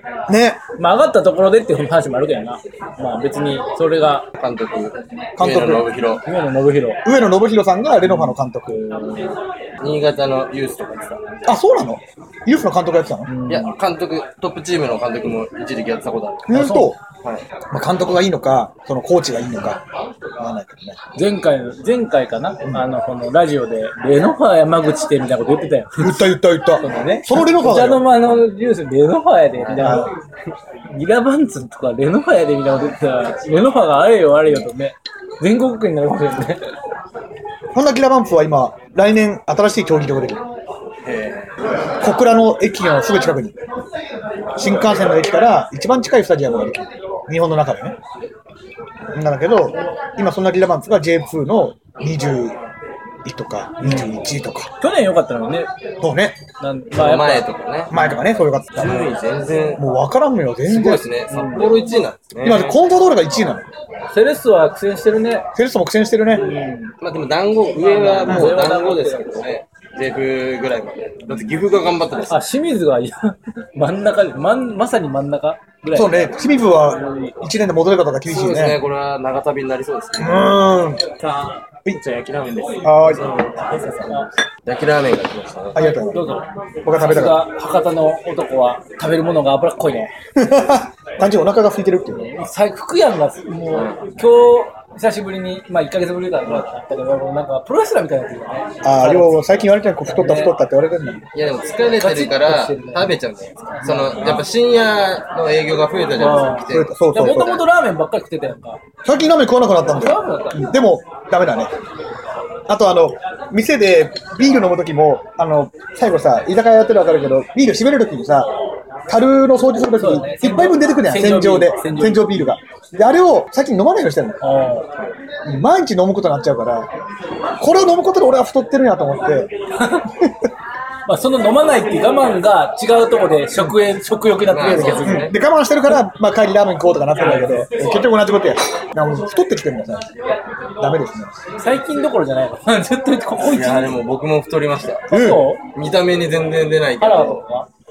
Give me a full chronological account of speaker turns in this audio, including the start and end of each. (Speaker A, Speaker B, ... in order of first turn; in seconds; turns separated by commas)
Speaker A: 0.3-0.6, Speaker B: 0.8-4.3, Speaker C: 4.4-6.2, Speaker A: 5.4-5.9, Speaker B: 6.2-7.0, Speaker A: 7.0-8.8, Speaker B: 8.0-9.3, Speaker C: 9.8-11.2, Speaker A: 11.4-13.3, Speaker B: 13.3-13.7, Speaker C: 13.5-16.6, Speaker A: 16.5-17.0, Speaker B: 16.5-16.9, Speaker A: 17.7-19.8, Speaker A: 20.4-21.0, Speaker B: 21.1-26.3, Speaker A: 26.0-28.1, Speaker B: 26.8-30.1, Speaker C: 29.7-30.0, Speaker A: 29.8-30.1, Speaker B: 30.9-36.6, Speaker A: 37.7-40.4, Speaker C: 41.0-41.5, Speaker A: 42.0-43.6, Speaker A: 44.5-48.0, Speaker A: 49.1-52.5, Speaker A: 53.2-54.7, Speaker B: 53.8-54.1, Speaker B: 54.8-55.7, Speaker A: 56.0-56.4, Speaker B: 56.6-58.1, Speaker C: 56.9-57.9, Speaker A: 57.9-59.1, Speaker C: 58.8-59.9, Speaker A: 59.8-61.0, Speaker C: 60.6-62.8, Speaker B: 61.3-61.7, Speaker A: 62.4-63.6, Speaker B: 64.1-65.5, Speaker A: 65.5-66.5, Speaker B: 66.3-66.9, Speaker C: 67.0-72.4, Speaker B: 67.8-69.5, Speaker A: 68.2-68.6, Speaker B: 72.3-76.3, Speaker A: 75.9-78.8, Speaker B: 76.8-77.3, Speaker C: 78.3-80.6, Speaker A: 80.2-81.0, Speaker B: 81.2-81.6, Speaker C: 81.9-86.0, Speaker A: 82.8-83.3, Speaker A: 85.7-87.5, Speaker B: 86.1-90.1, Speaker A: 90.3-92.4, Speaker B: 92.1-99.4, Speaker C: 93.7-94.0, Speaker A: 98.8-101.2, Speaker B: 100.1-100.5, Speaker C: 101.3-107.5, Speaker B: 102.0-103.2, Speaker B: 103.7-104.4, Speaker B: 106.2-108.8, Speaker A: 106.7-107.6, Speaker A: 109.0-111.7, Speaker B: 109.8-110.7, Speaker A: 112.7-118.5, Speaker A: 119.1-124.4, Speaker B: 120.0-122.5, Speaker B: 124.4-124.9, Speaker A: 125.4-126.9, Speaker A: 127.6-129.5, Speaker B: 129.8-130.1, Speaker B: 131.1-135.3, Speaker C: 134.5-135.3, Speaker A: 135.0-140.1, Speaker B: 137.2-137.7, Speaker A: 140.8-141.3, Speaker B: 141.6-144.0, Speaker C: 143.4-145.1, Speaker B: 145.1-145.6, Speaker A: 145.1-145.5, Speaker C: 145.7-147.4, Speaker B: 147.0-147.7